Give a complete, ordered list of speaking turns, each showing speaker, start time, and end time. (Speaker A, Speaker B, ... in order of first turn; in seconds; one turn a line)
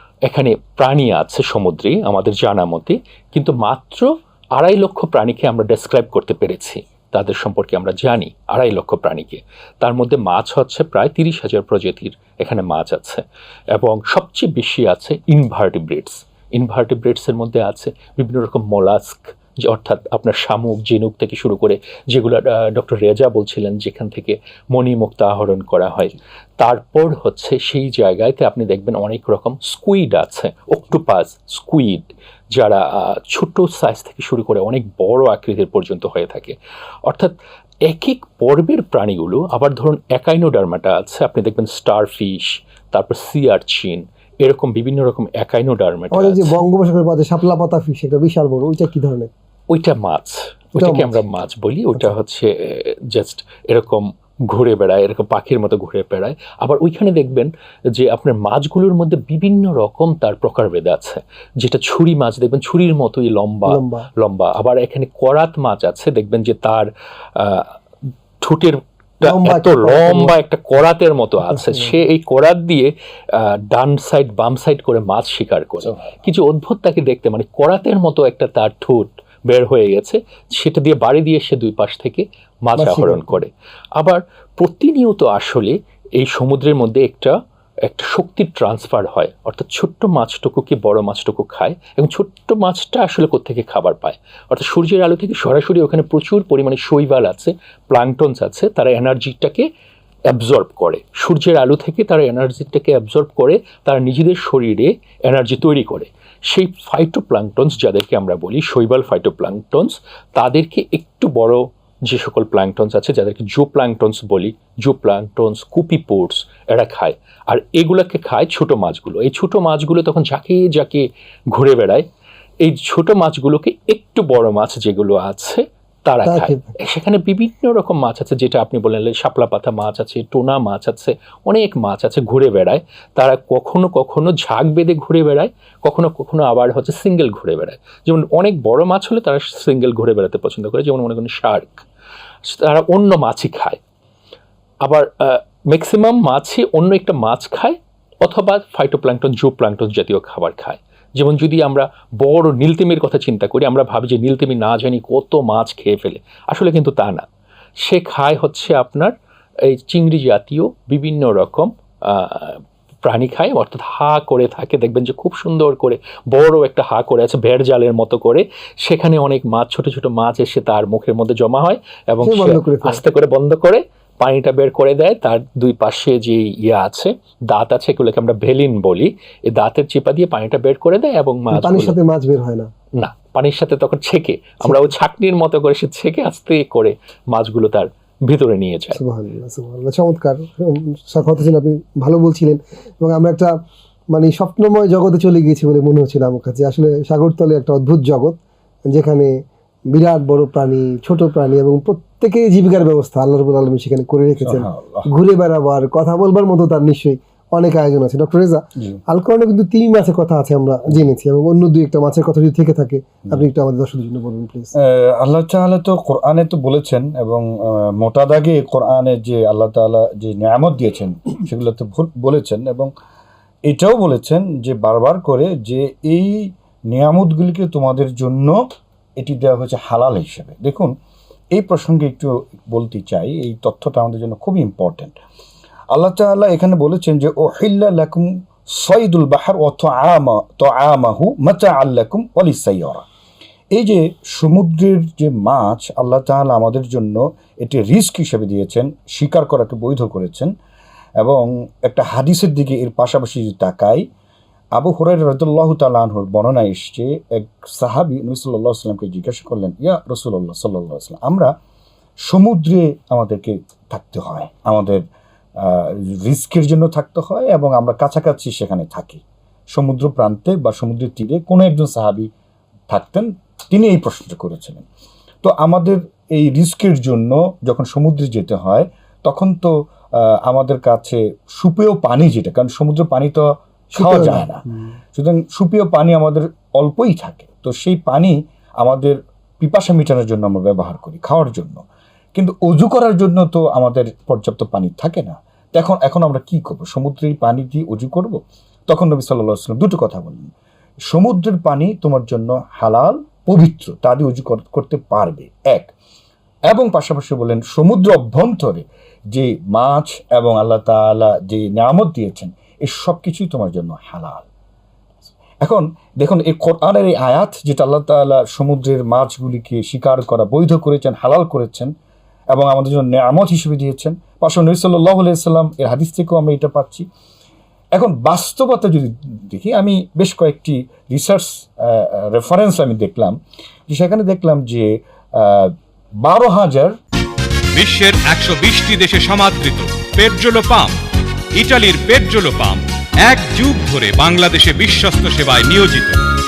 Speaker A: 0.2-36.5
Speaker A: 37.1-46.5
Speaker B: 46.1-49.3
Speaker A: 49.7-67.7
Speaker B: 50.8-51.2
Speaker B: 63.7-64.1
Speaker A: 68.4-99.7
Speaker B: 69.2-70.3
Speaker B: 71.5-72.0
Speaker B: 82.8-83.4
Speaker A: 100.3-122.0
Speaker A: 122.6-141.8
Speaker B: 126.2-126.7
Speaker A: 142.4-143.8
Speaker A: 144.8-157.2
Speaker A: 157.8-159.1
Speaker A: 159.6-182.0
Speaker B: 172.2-173.0
Speaker B: 181.5-182.7
Speaker A: 183.0-189.0
Speaker B: 184.6-184.9
Speaker B: 188.9-193.5
Speaker B: 194.1-199.3
Speaker B: 199.9-214.7
Speaker C: 204.4-205.1
Speaker C: 214.8-222.9
Speaker C: 223.7-228.6
Speaker C: 229.2-230.9
Speaker C: 231.5-235.1
Speaker C: 235.9-243.1
Speaker C: 243.7-250.5
Speaker C: 251.2-254.0
Speaker C: 254.7-261.5
Speaker C: 262.3-265.0
Speaker C: 265.6-269.2
Speaker C: 269.7-272.3
Speaker C: 272.9-274.8
Speaker C: 275.4-283.4
Speaker C: 283.9-291.8
Speaker B: 283.9-284.9
Speaker C: 292.3-300.5
Speaker C: 301.1-305.9
Speaker C: 306.7-314.5
Speaker C: 315.6-321.9
Speaker C: 322.5-327.1
Speaker C: 327.9-333.3
Speaker C: 333.9-336.9
Speaker D: 337.7-340.9
Speaker D: 341.6-346.2